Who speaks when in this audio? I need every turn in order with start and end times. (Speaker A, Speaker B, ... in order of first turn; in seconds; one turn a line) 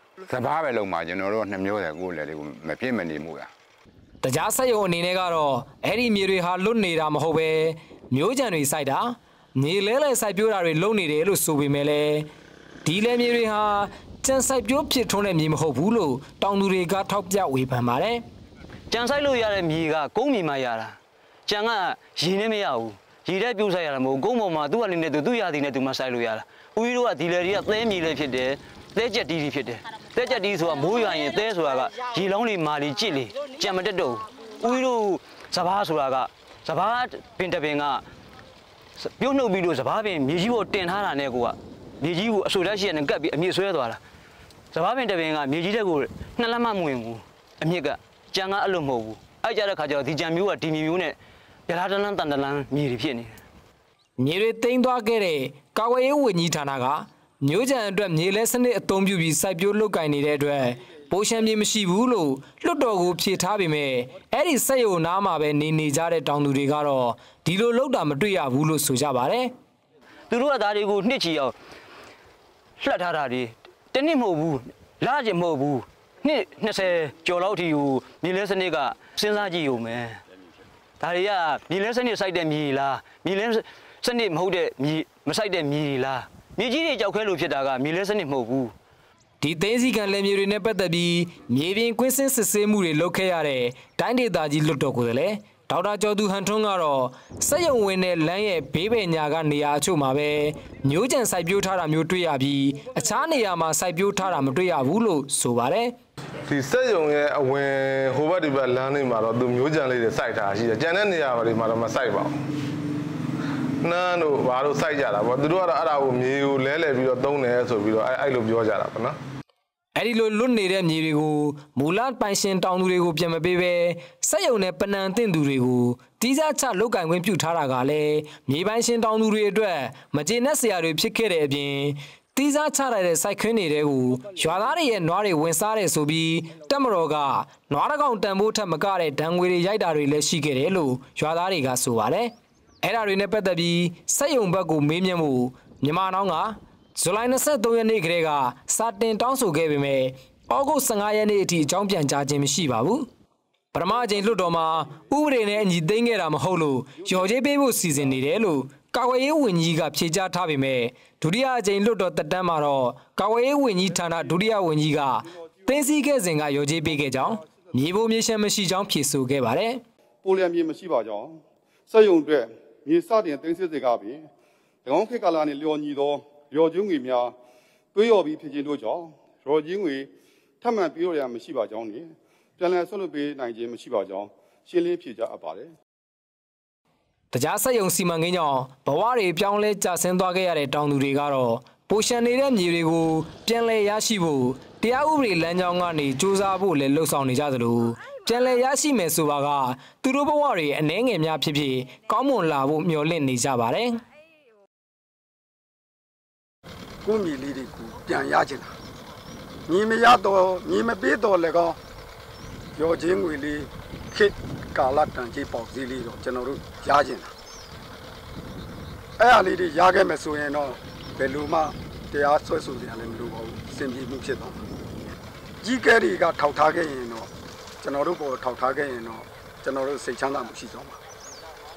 Speaker A: 0.3-3.5
Speaker B: 4.2-12.3
Speaker B: 12.8-18.2
Speaker C: 18.9-20.9
Speaker C: 21.5-38.0
Speaker C: 39.0-44.0
Speaker C: 44.7-51.1
Speaker C: 51.7-53.4
Speaker B: 54.2-69.5
Speaker C: 70.3-71.5
Speaker C: 72.8-80.2
Speaker C: 81.0-88.7
Speaker B: 89.4-105.9
Speaker D: 106.5-112.3
Speaker D: 113.8-119.2
Speaker B: 119.9-153.1
Speaker B: 153.7-169.8
Speaker E: 170.2-174.3
Speaker E: 174.8-177.3
Speaker E: 177.9-180.1
Speaker E: 180.6-185.7
Speaker B: 187.3-204.0
Speaker F: 207.0-208.7
Speaker F: 209.7-211.8
Speaker F: 212.8-217.3
Speaker F: 219.2-224.6
Speaker F: 225.6-227.3
Speaker F: 227.8-231.0